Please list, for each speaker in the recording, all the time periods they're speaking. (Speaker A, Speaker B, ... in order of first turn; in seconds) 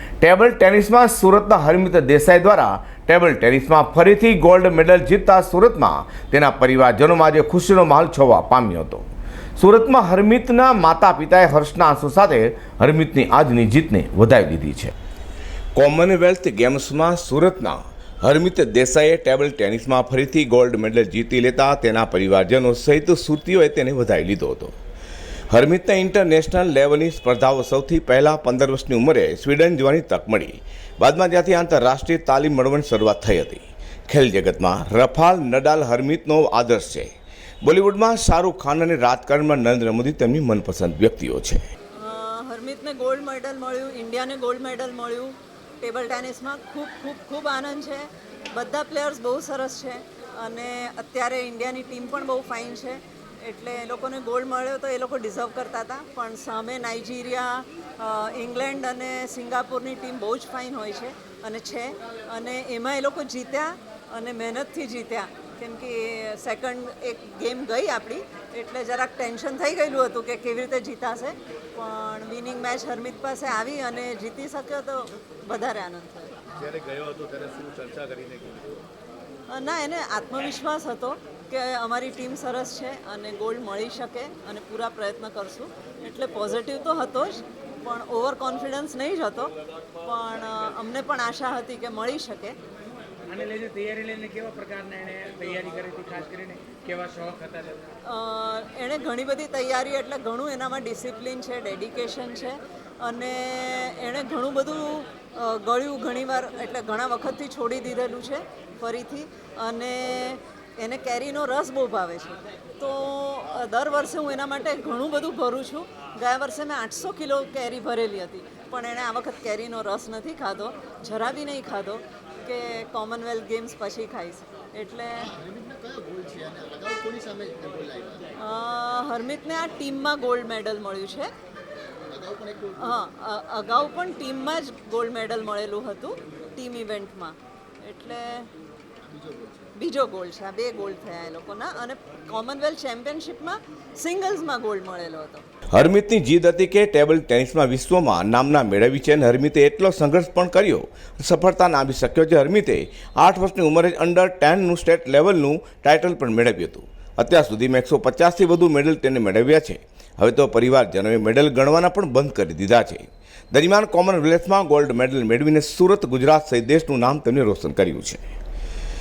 Speaker A: 0.2-9.1, 9.6-14.9, 15.7-24.7, 25.5-37.1, 37.6-41.6, 145.7-168.2
Speaker B: 42.0-76.3, 79.5-92.6, 98.0-125.3, 128.4-131.3, 132.8-138.5, 139.8-145.4
Speaker C: 77.7-78.0, 125.2-128.3, 132.1-133.0, 139.0-139.7
Speaker D: 93.2-97.8